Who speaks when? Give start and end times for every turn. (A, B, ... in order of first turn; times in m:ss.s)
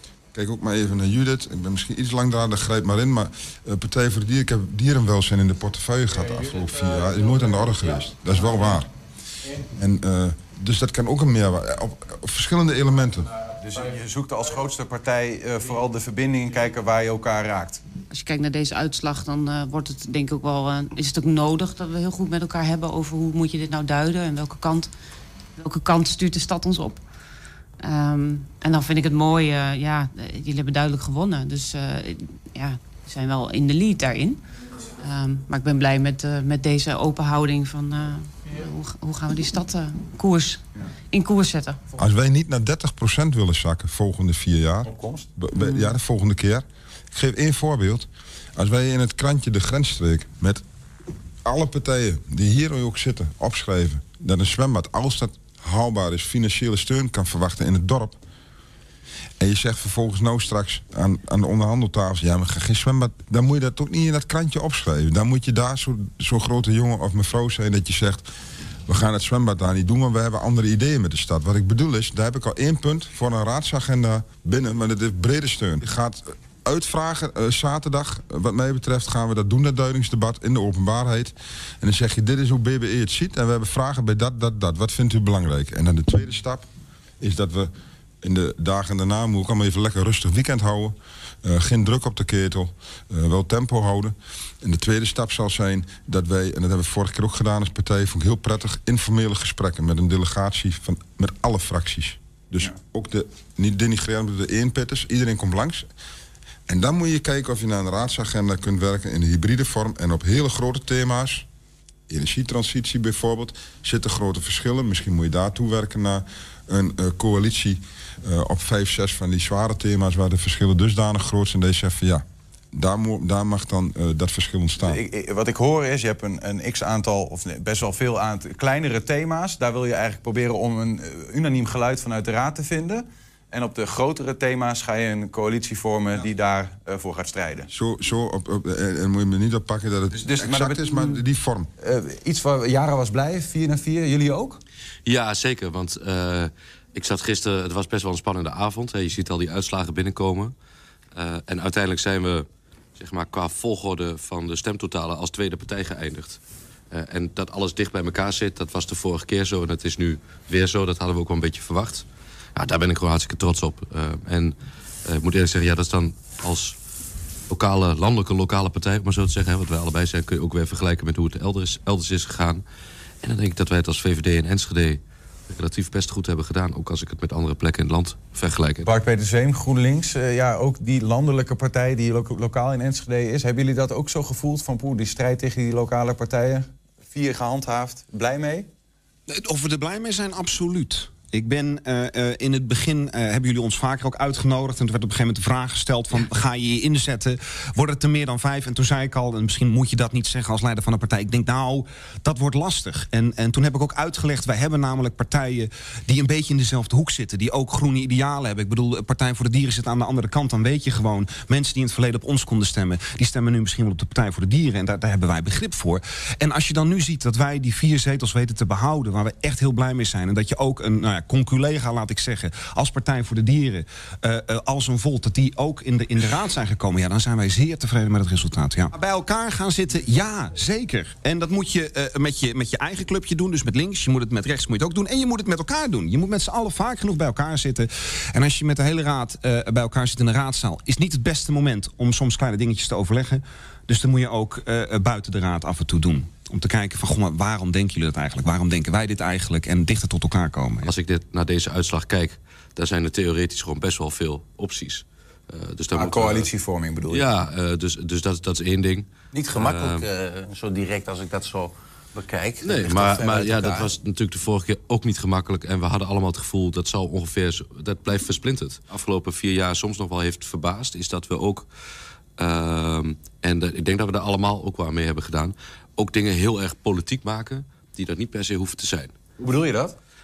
0:00.3-0:08.9 A
0:09.8-0:13.3 A
0:13.6-0:17.8 B
0:18.1-0:24.9 C
0:25.6-0:27.0 C
0:27.8-0:34.4 C
0:35.0-0:41.8 C
0:42.0-0:50.6 A
0:44.8-0:45.9 B
0:51.4-0:58.2 A
0:59.4-1:08.2 A
1:08.9-1:26.7 A
1:27.2-1:27.7 A
1:28.2-1:45.8 A
1:46.7-1:51.4 A
1:52.1-2:05.0 A
2:04.8-2:17.7 B
2:17.7-2:21.7 A
2:20.2-2:21.2 B
2:21.8-2:24.6 B
2:25.0-2:30.5 D
2:31.1-2:36.4 D
2:36.9-2:42.0 D
2:42.6-2:46.8 D
2:47.5-2:52.6 D
2:53.2-2:58.9 D
2:58.8-3:08.7 B
3:09.3-4:10.9 E
4:10.8-4:16.5 D
4:15.9-4:17.3 B
4:17.1-4:20.0 D
4:19.3-4:23.9 F
4:22.6-4:31.7 D
4:32.4-4:39.2 D
4:39.4-4:39.9 B